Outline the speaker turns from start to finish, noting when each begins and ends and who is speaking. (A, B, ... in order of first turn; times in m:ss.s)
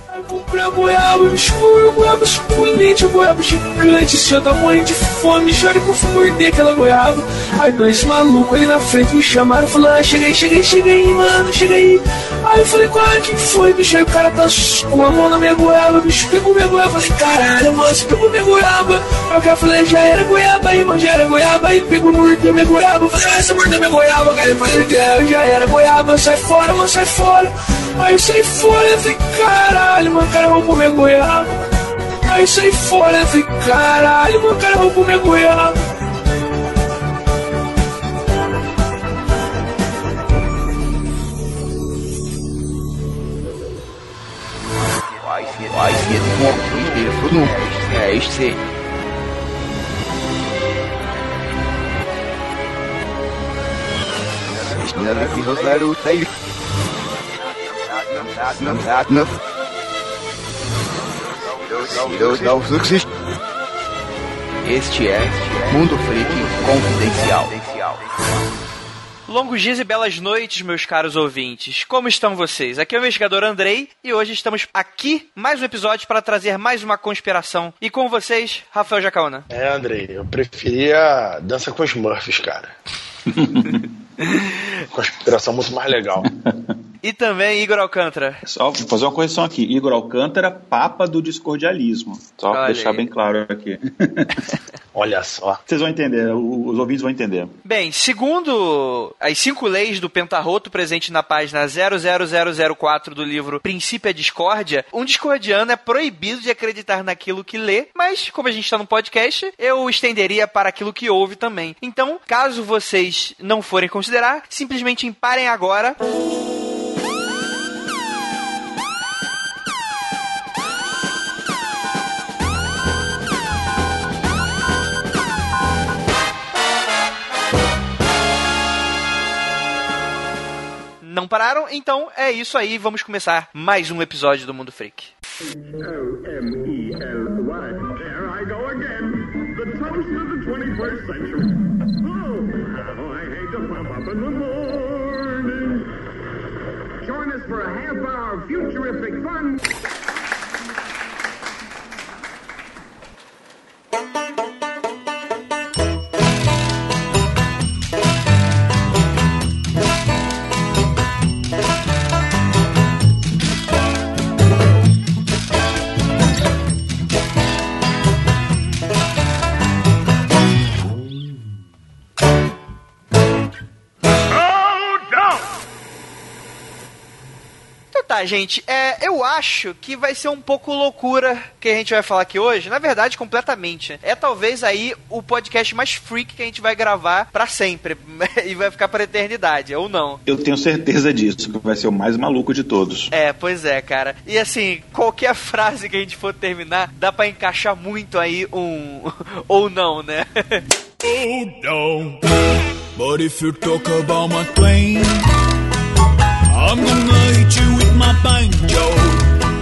0:00.1-0:31.6 A
0:32.2-0:35.7 A
0:45.3-0:48.6 B
0:54.7-0:56.3 B
0:58.5-0:59.3 B
1:01.8-1:03.0 B
1:04.6-1:08.0 B
1:09.3-1:19.5 C
1:19.5-1:22.7 D
1:23.3-1:23.8 E
1:24.2-1:24.7 C
1:24.9-1:26.2 D
1:26.2-1:26.7 E
1:27.0-1:28.4 C
1:28.4-1:34.4 E
1:32.5-1:33.1 C
1:34.9-1:35.6 D
1:35.7-1:37.6 E
1:37.6-1:56.0 C
2:11.0-2:15.1 C
2:16.1-2:19.0 F
2:19.6-2:21.3 F
2:23.0-2:24.1 F
2:27.2-2:29.3 F
2:57.9-3:10.2 C
3:10.2-3:13.1 E
3:13.1-3:20.6 C
3:21.0-3:22.2 G
3:23.0-3:25.2 G
3:26.5-3:29.2 G